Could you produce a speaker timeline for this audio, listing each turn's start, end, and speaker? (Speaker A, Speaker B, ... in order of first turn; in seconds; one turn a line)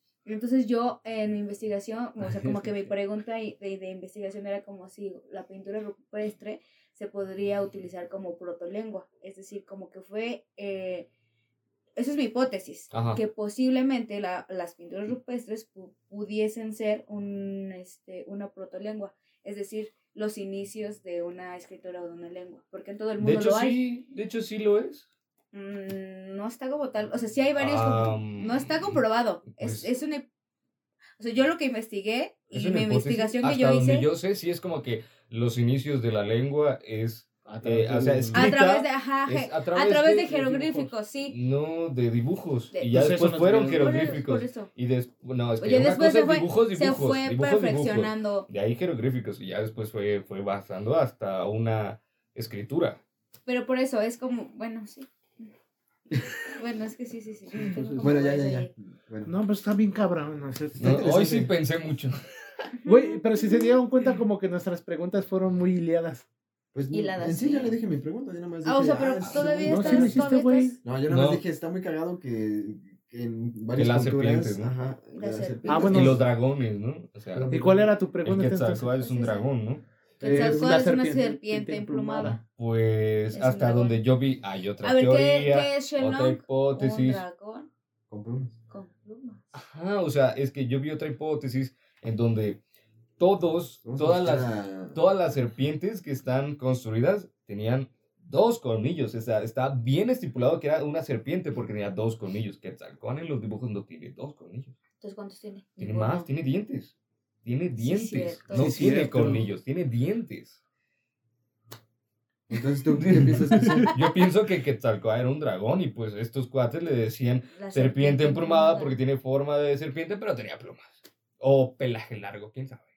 Speaker A: 0.2-11.1
Speaker B: 2.2-2.7
Speaker A: 12.0-23.8
Speaker B: 12.9-13.2
Speaker B: 23.2-25.1
Speaker A: 25.5-30.3
Speaker B: 27.6-29.0
Speaker B: 29.6-29.9
Speaker A: 31.2-34.1
Speaker B: 32.5-53.0
Speaker C: 37.5-38.5
Speaker A: 38.3-41.4
Speaker C: 40.3-40.9
Speaker A: 42.7-43.0
Speaker C: 42.9-44.0
Speaker A: 43.6-44.7
Speaker A: 45.6-48.5
Speaker A: 53.5-55.5
Speaker A: 56.5-58.7
Speaker C: 57.5-58.2
Speaker D: 58.0-59.3
Speaker C: 59.2-61.5
Speaker B: 60.8-62.2
Speaker D: 60.9-61.5
Speaker A: 62.8-63.8
Speaker C: 62.9-66.3
Speaker D: 66.7-70.3
Speaker A: 66.9-67.8
Speaker A: 68.6-70.8
Speaker B: 69.2-69.5
Speaker C: 69.7-70.8
Speaker D: 70.8-76.2
Speaker B: 71.1-71.4
Speaker B: 73.8-74.8
Speaker A: 75.1-76.2
Speaker C: 75.7-76.2
Speaker B: 75.9-79.8
Speaker D: 77.3-77.8
Speaker C: 77.5-79.0
Speaker A: 79.0-79.5
Speaker D: 80.2-80.6
Speaker A: 80.2-82.4
Speaker C: 80.2-82.4
Speaker B: 82.2-87.2
Speaker A: 83.3-84.0
Speaker A: 84.8-87.7
Speaker D: 88.1-88.5
Speaker A: 88.7-89.5
Speaker B: 89.5-92.6
Speaker B: 93.2-104.8
Speaker D: 93.8-95.0
Speaker A: 105.0-106.3
Speaker B: 105.8-106.9
Speaker B: 107.4-110.6
Speaker A: 107.8-109.1
Speaker C: 108.5-109.5
Speaker D: 112.5-113.9
Speaker B: 113.0-122.9
Speaker C: 113.6-113.9
Speaker A: 117.5-119.0